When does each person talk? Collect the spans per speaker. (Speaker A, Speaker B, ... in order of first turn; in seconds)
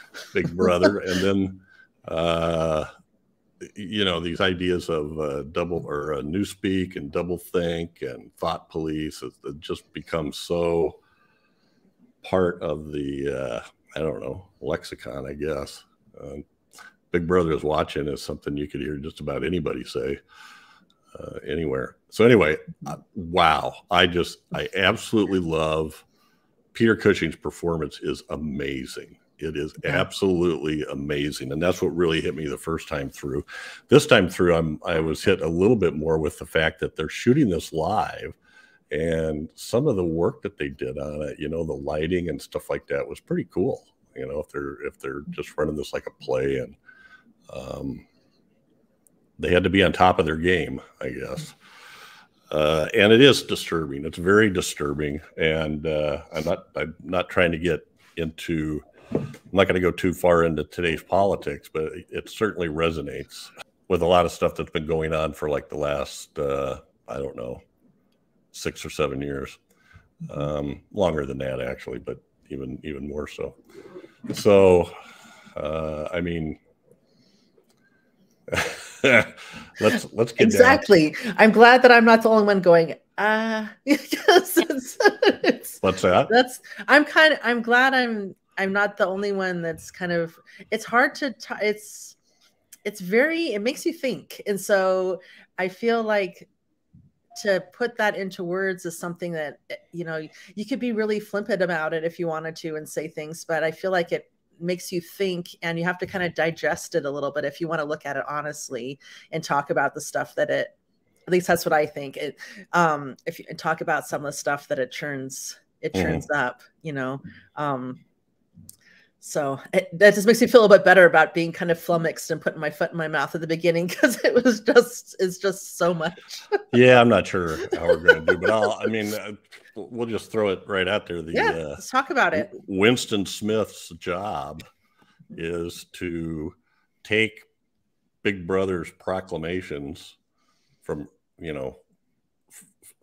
Speaker A: 0.3-2.9, 3.6-11.0, 12.2-16.4, 17.1-20.2, 21.1-26.0, 26.7-38.4, 38.9-46.8, 47.5-48.0, 49.4-51.6, 52.5-58.9, 59.5-67.6, 68.5-69.6, 70.3-73.6, 74.3-75.0, 75.5-76.6, 78.5-80.9, 85.8-86.3, 115.9-116.2, 126.7-131.8, 132.3-134.7, 135.3-137.5, 138.2-140.2, 140.8-141.8
Speaker B: 80.4-92.2, 92.8-96.5, 97.3-110.7, 111.3-118.0, 119.2-126.7, 128.0-128.9, 131.3-132.5